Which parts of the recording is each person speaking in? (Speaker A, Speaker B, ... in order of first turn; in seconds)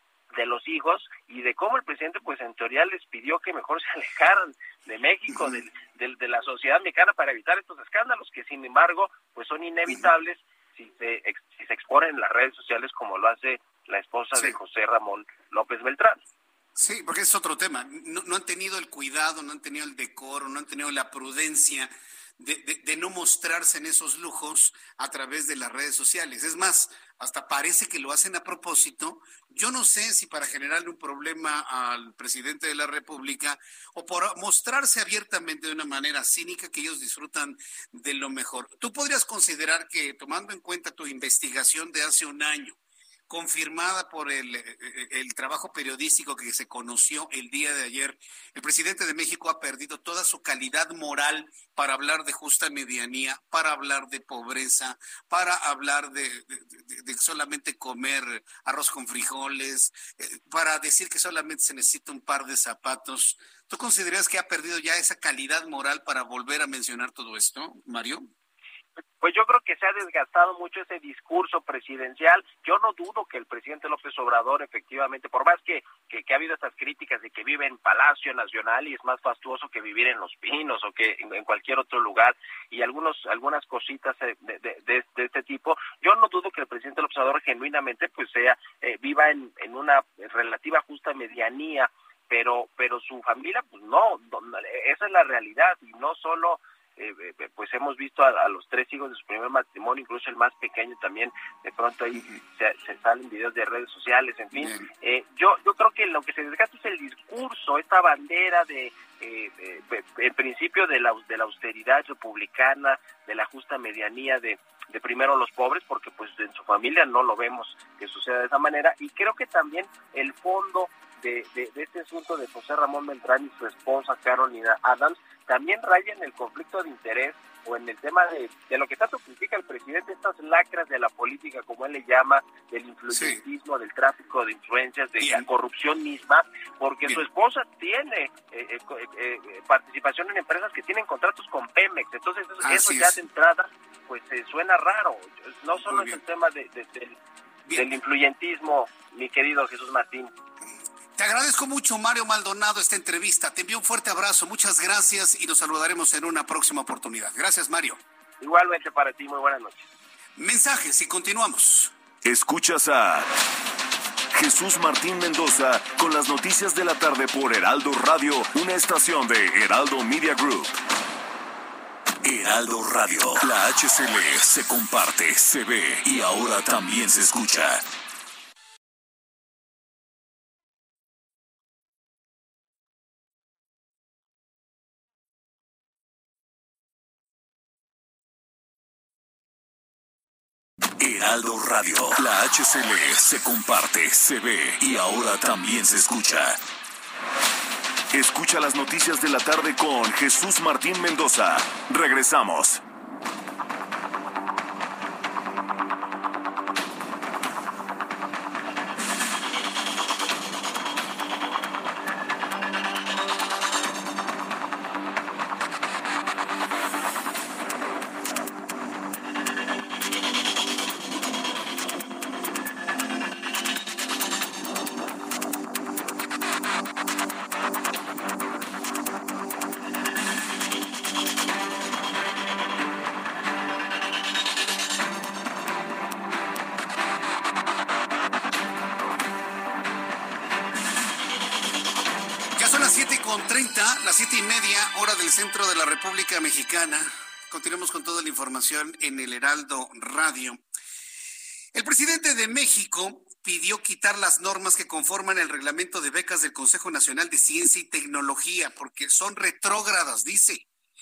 Speaker A: 0.3-16.2, 69.2-147.2, 147.7-150.3, 158.4-159.9
Speaker B: 5.3-5.6, 16.8-42.8, 43.3-68.2, 104.5-104.9, 133.1-133.4, 135.2-135.5, 142.6-143.2, 145.9-146.2, 151.2-158.0, 160.4-161.9, 242.5-250.6, 251.7-260.6
Speaker C: 162.2-163.3, 164.3-170.7, 172.2-177.8, 191.0-196.6, 198.1-202.8